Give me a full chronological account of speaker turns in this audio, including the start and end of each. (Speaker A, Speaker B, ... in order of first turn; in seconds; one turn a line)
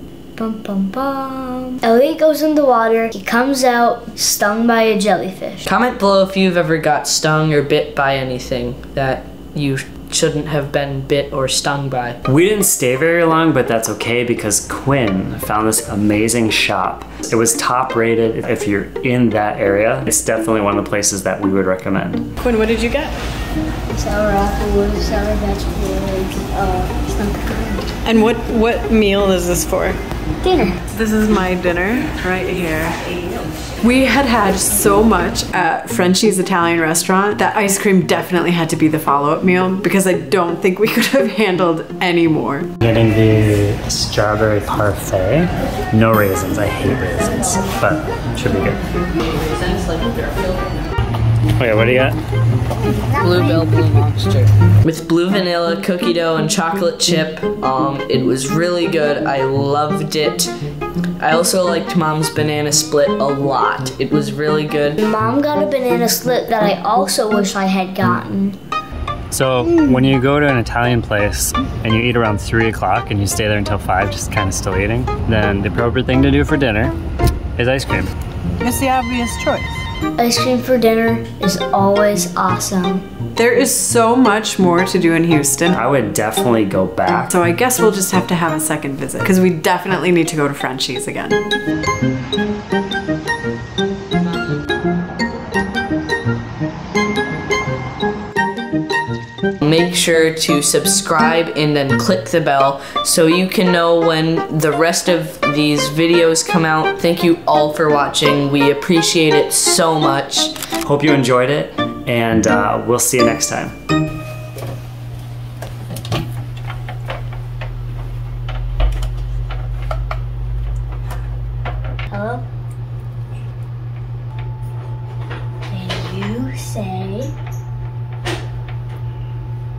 Speaker A: 0.4-5.7
Speaker B: 5.7-12.2
Speaker C: 12.2-22.2
Speaker D: 22.4-23.1
Speaker A: 23.9-27.8
Speaker D: 28.9-30.0
Speaker A: 30.4-30.8
Speaker E: 30.9-33.1
Speaker E: 33.8-42.7
Speaker C: 42.8-48.8
Speaker B: 49.1-50.9
Speaker C: 51.6-52.2
Speaker B: 53.1-60.5
Speaker B: 61.2-65.0
Speaker A: 65.0-68.6
Speaker C: 69.3-76.9
Speaker C: 77.6-78.1
Speaker D: 78.6-79.8
Speaker A: 80.2-83.0
Speaker E: 83.3-85.8
Speaker C: 85.7-87.3
Speaker E: 87.3-91.4
Speaker B: 99.6-110.5
Speaker C: 110.8-113.7
Speaker A: 122.1-122.5
Speaker A: 125.7-127.3